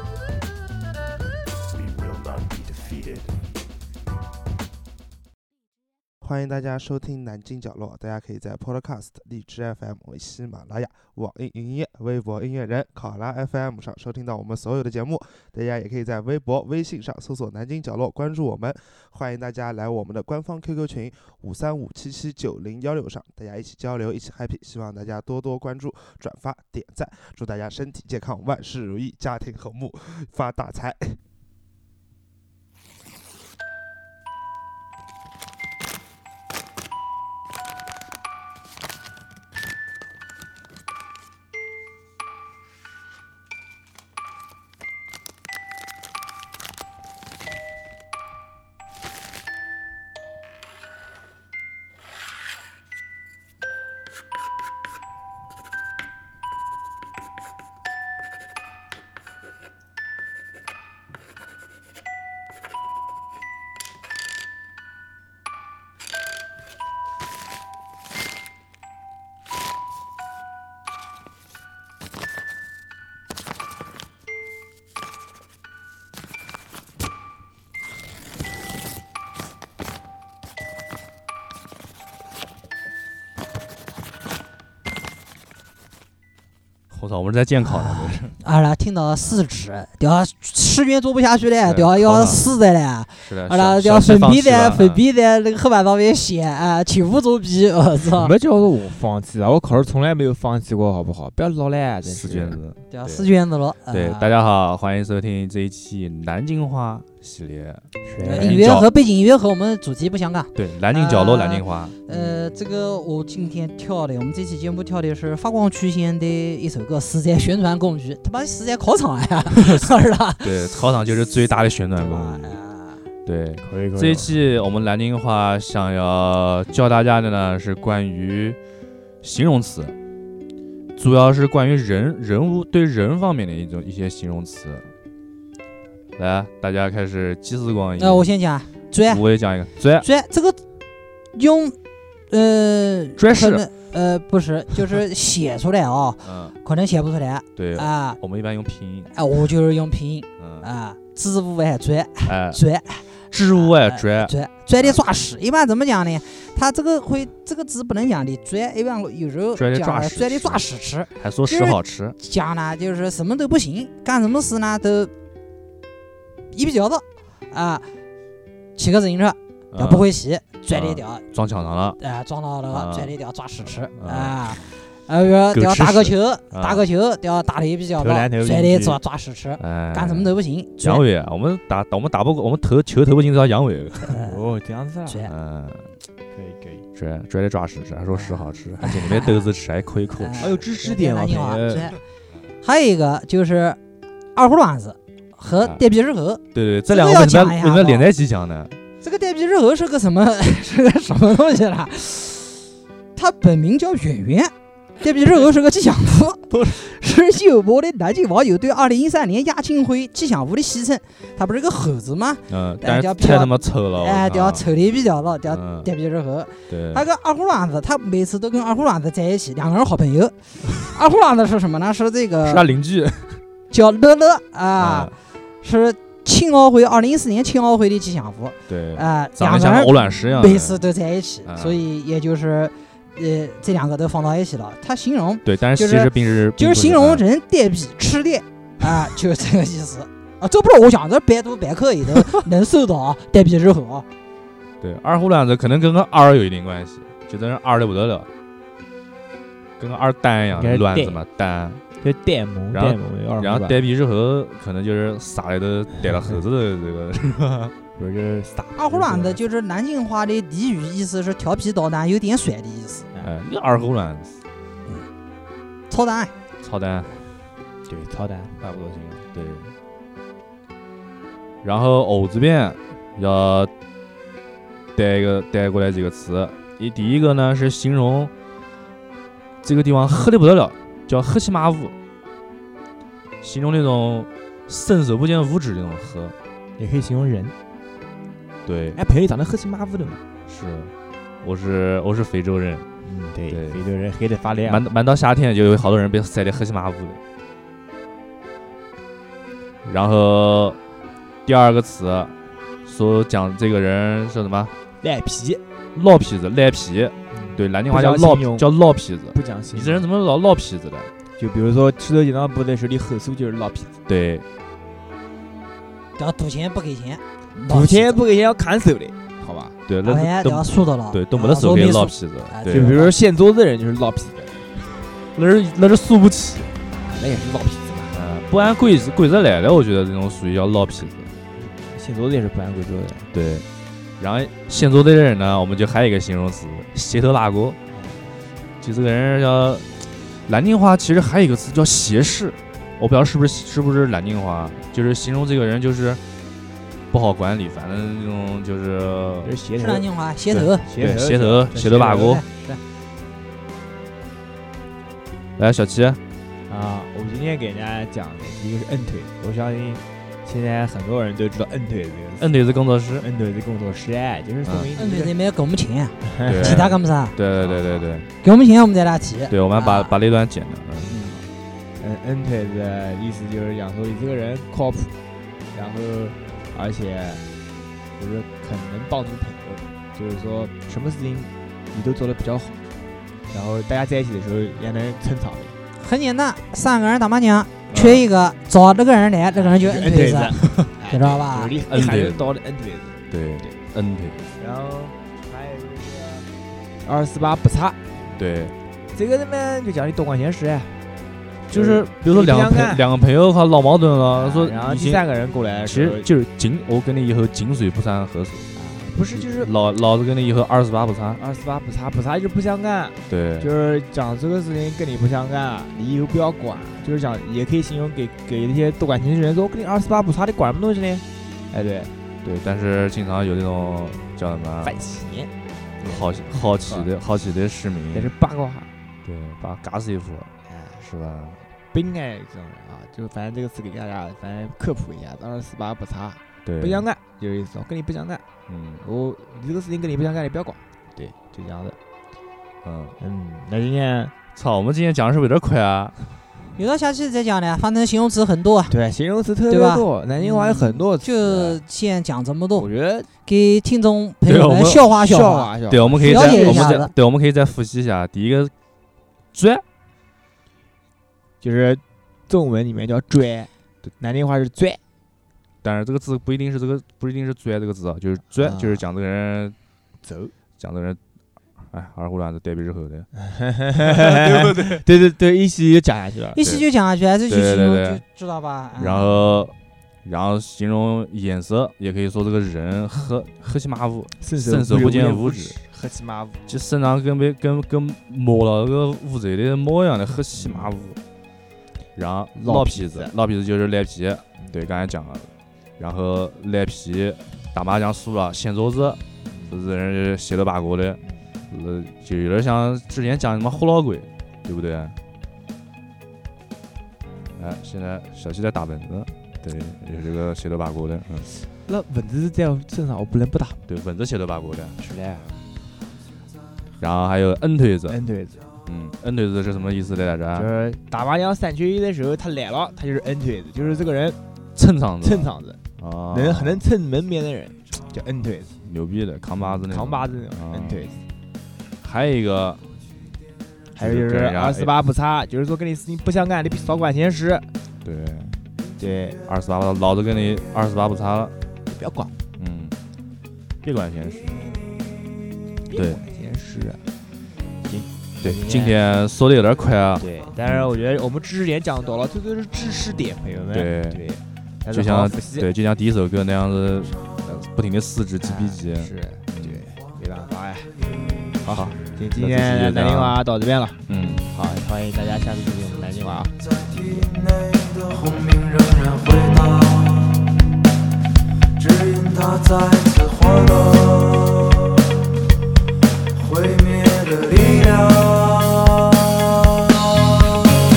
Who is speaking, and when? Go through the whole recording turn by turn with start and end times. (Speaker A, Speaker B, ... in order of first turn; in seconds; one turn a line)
Speaker A: 6.2-31.2
Speaker B: 86.9-88.4
Speaker C: 87.6-98.3
Speaker B: 91.7-92.5
Speaker B: 93.2-95.0
Speaker D: 98.1-102.6
Speaker B: 102.0-103.3
Speaker C: 102.9-104.3
Speaker B: 103.9-107.9
Speaker D: 108.0-108.6
Speaker C: 108.2-120.8
Speaker B: 108.4-108.9
Speaker B: 110.5-112.0
Speaker B: 120.4-122.6
Speaker C: 122.0-123.0
Speaker B: 123.2-128.6
Speaker D: 123.6-124.4
Speaker B: 129.2-129.9
Speaker B: 131.0-134.9
Speaker B: 136.2-138.3
Speaker C: 138.0-139.2
Speaker B: 139.1-140.1
Speaker C: 140.0-140.6
Speaker C: 141.3-141.8
Speaker C: 142.3-148.2
Speaker B: 143.2-143.7
Speaker B: 146.2-146.6
Speaker B: 147.6-149.1
Speaker C: 149.1-165.1
Speaker B: 150.4-150.7
Speaker B: 152.2-152.6
Speaker B: 153.3-155.0
Speaker B: 159.6-162.2
Speaker C: 166.5-167.9
Speaker C: 168.8-171.2
Speaker B: 169.7-170.1
Speaker B: 170.7-172.0
Speaker C: 172.0-181.1
Speaker B: 172.7-173.2
Speaker B: 173.9-174.4
Speaker B: 175.5-176.8
Speaker D: 178.0-179.0
Speaker B: 179.6-184.2
Speaker D: 184.2-185.2
Speaker C: 185.1-185.3
Speaker B: 185.3-185.9
Speaker D: 186.3-186.9
Speaker B: 186.9-190.6
Speaker C: 188.1-189.5
Speaker C: 190.2-192.0
Speaker D: 190.4-192.0
Speaker C: 192.6-193.8
Speaker C: 194.3-198.1
Speaker B: 196.5-198.8
Speaker C: 199.0-202.6
Speaker C: 203.2-222.7
Speaker B: 206.5-206.8
Speaker B: 212.5-214.7
Speaker B: 215.5-215.9
Speaker B: 216.7-217.1
Speaker B: 222.4-223.4
Speaker C: 223.7-244.1
Speaker B: 224.8-225.1
Speaker B: 228.7-230.8
Speaker B: 231.4-231.8
Speaker B: 235.4-237.2
Speaker B: 244.8-248.3
Speaker B: 249.8-251.8
Speaker D: 250.5-251.2
Speaker D: 252.0-253.8
Speaker B: 252.7-257.7
Speaker D: 257.9-259.4
Speaker C: 258.8-263.1
Speaker B: 263.2-264.4
Speaker C: 265.9-266.3
Speaker B: 266.6-267.2
Speaker D: 267.9-269.2
Speaker B: 269.3-269.7
Speaker B: 271.6-273.7
Speaker B: 274.9-278.3
Speaker B: 279.6-281.9
Speaker B: 283.4-286.4
Speaker D: 286.8-287.6
Speaker B: 288.6-289.0
Speaker D: 288.9-290.2
Speaker B: 290.5-292.9
Speaker D: 293.0-294.9
Speaker B: 293.5-293.8
Speaker B: 294.6-297.2
Speaker B: 299.8-300.8
Speaker B: 301.5-302.3
Speaker B: 302.9-304.7
Speaker D: 305.0-305.6
Speaker B: 305.9-311.1
Speaker D: 307.3-308.7
Speaker D: 309.3-310.1
Speaker D: 311.4-314.0
Speaker B: 314.1-314.4
Speaker C: 316.2-318.2
Speaker D: 317.6-319.8
Speaker B: 319.9-322.9
Speaker C: 320.0-323.2
Speaker D: 322.7-324.7
Speaker B: 325.3-326.8
Speaker D: 326.9-328.2
Speaker B: 328.1-331.4
Speaker D: 331.6-333.3
Speaker B: 333.3-333.7
Speaker B: 334.2-337.8
Speaker D: 337.9-338.3
Speaker B: 338.8-339.9
Speaker B: 340.4-346.2
Speaker B: 347.1-349.6
Speaker D: 349.4-350.1
Speaker C: 349.8-350.8
Speaker B: 350.5-352.4
Speaker D: 350.8-352.3
Speaker C: 352.1-352.8
Speaker B: 355.6-356.2
Speaker D: 356.7-362.6
Speaker B: 362.4-363.3
Speaker D: 363.2-365.3
Speaker C: 365.0-367.4
Speaker D: 366.2-366.9
Speaker B: 366.5-368.3
Speaker D: 367.6-368.0
Speaker C: 368.4-370.1
Speaker B: 369.5-371.2
Speaker D: 371.0-371.4
Speaker D: 372.0-375.1
Speaker D: 375.7-377.4
Speaker D: 378.2-382.8
Speaker D: 383.5-385.8
Speaker C: 386.0-391.8
Speaker B: 387.9-388.2
Speaker D: 389.5-393.7
Speaker B: 391.9-392.6
Speaker B: 393.3-394.4
Speaker D: 394.6-396.5
Speaker D: 397.0-398.2
Speaker B: 398.3-398.8
Speaker D: 399.1-401.0
Speaker B: 401.7-405.2
Speaker D: 401.7-403.0
Speaker D: 404.3-406.3
Speaker B: 405.8-408.7
Speaker D: 408.8-409.7
Speaker B: 409.3-411.4
Speaker D: 411.4-422.1
Speaker B: 413.3-413.7
Speaker B: 422.4-425.1
Speaker D: 424.8-427.1
Speaker B: 426.0-428.3
Speaker D: 428.1-428.9
Speaker B: 429.2-431.6
Speaker D: 430.7-431.1
Speaker D: 431.9-438.4
Speaker B: 436.6-437.1
Speaker B: 438.7-439.0
Speaker D: 439.0-442.0
Speaker B: 442.8-443.2
Speaker D: 443.2-444.3
Speaker B: 444.6-446.4
Speaker C: 446.8-449.0
Speaker D: 448.9-451.8
Speaker C: 449.7-452.9
Speaker D: 452.8-453.3
Speaker C: 453.4-457.1
Speaker B: 454.5-455.1
Speaker D: 455.1-456.9
Speaker B: 455.9-458.7
Speaker B: 459.5-459.8
Speaker D: 461.6-465.0
Speaker B: 465.8-469.8
Speaker D: 468.6-469.1
Speaker D: 470.2-470.5
Speaker B: 470.8-471.2
Speaker B: 471.8-473.3
Speaker D: 473.4-476.6
Speaker B: 474.4-475.0
Speaker C: 476.5-479.3
Speaker B: 476.6-476.9
Speaker B: 477.5-478.2
Speaker B: 479.0-485.8
Speaker D: 484.4-486.6
Speaker B: 486.7-491.2
Speaker D: 490.6-491.0
Speaker B: 492.1-505.2
Speaker D: 492.6-493.4
Speaker D: 499.4-499.8
Speaker D: 501.2-501.5
Speaker B: 507.6-511.5
Speaker D: 511.5-513.8
Speaker B: 513.9-515.0
Speaker D: 515.0-515.6
Speaker B: 517.0-518.2
Speaker D: 518.1-518.7
Speaker B: 518.9-520.7
Speaker D: 520.5-524.4
Speaker B: 524.8-526.9
Speaker D: 525.2-525.8
Speaker D: 526.3-528.8
Speaker B: 528.8-531.1
Speaker D: 529.6-531.2
Speaker B: 532.0-532.8
Speaker D: 533.9-537.7
Speaker B: 534.0-534.9
Speaker B: 538.0-538.6
Speaker D: 539.0-539.4
Speaker B: 539.4-541.6
Speaker D: 541.9-542.4
Speaker B: 542.6-543.0
Speaker B: 543.8-544.7
Speaker D: 545.9-547.1
Speaker B: 545.9-546.2
Speaker D: 547.8-549.0
Speaker B: 548.4-550.9
Speaker D: 550.2-555.7
Speaker B: 553.7-554.2
Speaker B: 554.9-559.8
Speaker D: 558.4-560.9
Speaker B: 561.6-563.4
Speaker D: 561.6-567.4
Speaker B: 564.1-564.5
Speaker E: 567.4-570.5
Speaker E: 571.8-575.2
Speaker E: 576.4-579.4